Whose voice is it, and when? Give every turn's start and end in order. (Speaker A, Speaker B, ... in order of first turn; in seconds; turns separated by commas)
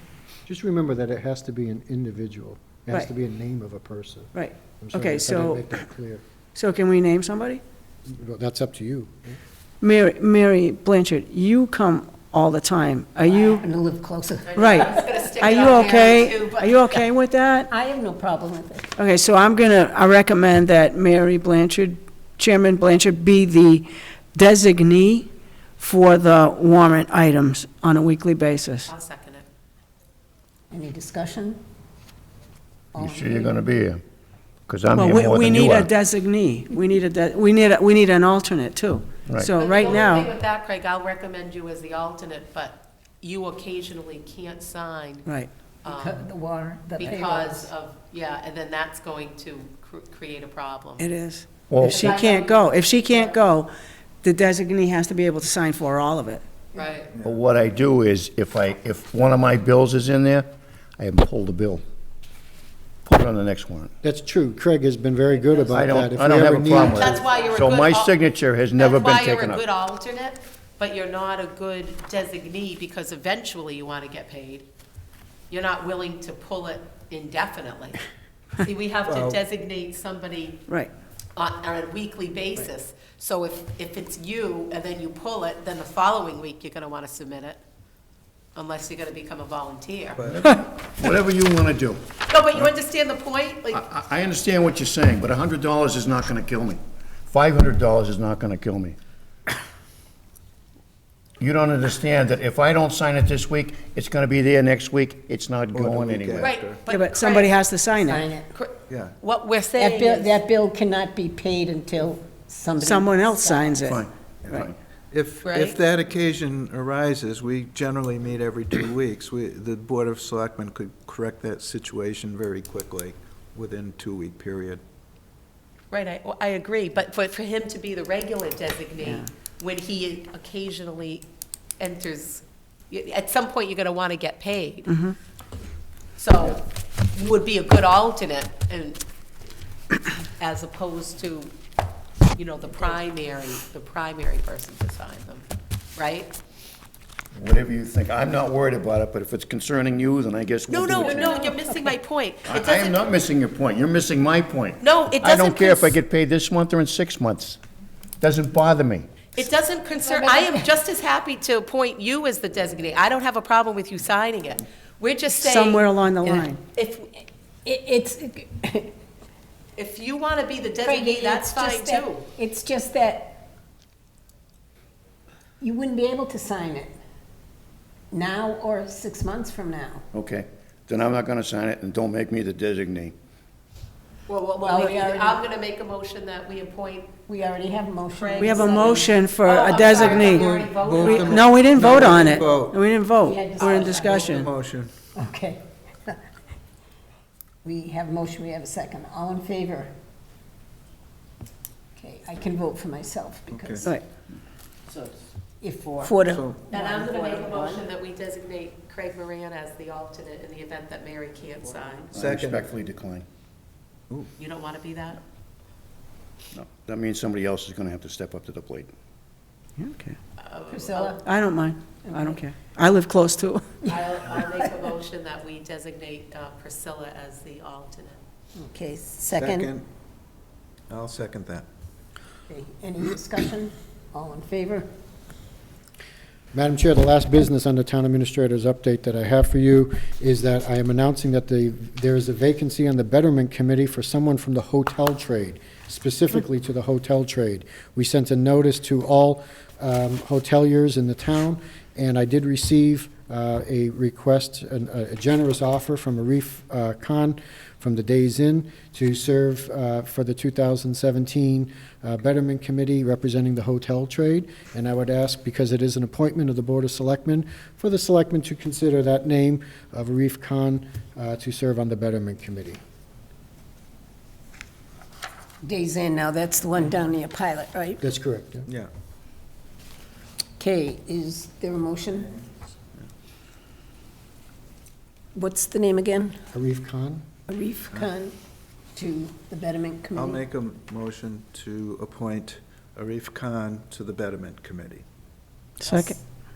Speaker A: 0.5-6.2, Speaker B: 4.3-5.8, Speaker B: 6.5-7.6, Speaker A: 8.1-9.4, Speaker B: 9.8-13.7, Speaker C: 13.5-15.1, Speaker D: 14.5-16.8, Speaker B: 14.6-17.7, Speaker C: 17.7-18.9, Speaker B: 19.0-25.3, Speaker B: 25.8-28.9, Speaker D: 28.9-29.4, Speaker C: 30.7-31.6, Speaker C: 33.0-33.6, Speaker E: 33.0-34.0, Speaker E: 34.7-35.9, Speaker B: 35.0-40.3, Speaker E: 39.3-40.0, Speaker D: 39.6-45.3, Speaker D: 45.8-46.3, Speaker C: 45.9-47.7, Speaker D: 47.0-51.0, Speaker B: 51.0-53.7, Speaker E: 51.7-52.2, Speaker D: 51.8-53.4, Speaker B: 54.2-56.4, Speaker D: 56.7-57.1, Speaker F: 57.1-57.4, Speaker E: 57.2-61.8, Speaker E: 63.1-63.9, Speaker A: 64.0-67.2, Speaker E: 65.7-69.7, Speaker D: 66.7-68.2, Speaker D: 68.8-74.7, Speaker D: 75.5-78.0, Speaker D: 78.6-80.7, Speaker F: 79.1-79.4, Speaker D: 81.4-87.6, Speaker D: 88.5-90.3, Speaker F: 90.2-90.5, Speaker E: 90.3-92.7, Speaker D: 92.3-93.8, Speaker E: 93.7-99.0, Speaker E: 101.4-106.5, Speaker F: 105.7-106.8, Speaker D: 106.4-107.6, Speaker B: 106.9-108.2, Speaker C: 108.0-108.5, Speaker D: 108.5-110.4, Speaker F: 108.9-109.2, Speaker C: 109.8-113.9, Speaker B: 112.8-114.7, Speaker E: 113.9-114.7, Speaker F: 114.4-124.8, Speaker D: 115.5-115.8, Speaker D: 125.9-131.3, Speaker D: 131.8-134.9, Speaker B: 134.9-135.2, Speaker D: 136.2-139.0, Speaker D: 140.4-141.5, Speaker D: 142.4-146.4, Speaker E: 147.4-151.3, Speaker D: 150.7-153.1, Speaker C: 151.1-151.9, Speaker E: 152.5-157.6, Speaker D: 154.8-156.0, Speaker E: 158.2-159.1, Speaker D: 159.3-167.1, Speaker C: 160.1-160.6, Speaker B: 165.3-166.6, Speaker C: 167.7-169.0, Speaker D: 169.8-172.3, Speaker C: 170.8-173.4, Speaker C: 175.6-177.0, Speaker C: 178.1-180.0, Speaker E: 180.1-183.2, Speaker D: 184.3-187.1, Speaker C: 184.6-185.4, Speaker C: 187.2-189.0, Speaker D: 188.1-192.3, Speaker B: 188.4-190.5, Speaker F: 189.9-192.8, Speaker B: 191.0-194.5, Speaker C: 193.2-194.2, Speaker F: 193.6-194.9, Speaker C: 195.2-196.2, Speaker C: 197.6-199.9, Speaker C: 202.0-203.9, Speaker F: 203.5-203.9, Speaker C: 205.6-207.0, Speaker F: 206.3-206.6, Speaker D: 206.7-212.1, Speaker E: 212.1-213.2, Speaker F: 212.1-212.7, Speaker D: 214.4-215.2, Speaker E: 216.5-218.9, Speaker B: 219.8-220.2, Speaker D: 220.4-221.2, Speaker C: 220.7-221.2, Speaker B: 221.2-223.7, Speaker C: 222.1-222.4, Speaker D: 223.8-228.2, Speaker C: 228.6-229.7, Speaker F: 229.3-229.8, Speaker F: 230.9-231.7, Speaker C: 232.5-234.9, Speaker A: 236.5-272.8, Speaker C: 275.6-278.0, Speaker A: 278.0-278.7, Speaker C: 280.6-282.3, Speaker C: 285.3-286.4, Speaker A: 286.5-287.2, Speaker C: 287.5-288.4, Speaker C: 288.9-290.4, Speaker F: 290.1-295.0, Speaker B: 295.8-296.2, Speaker C: 295.9-296.2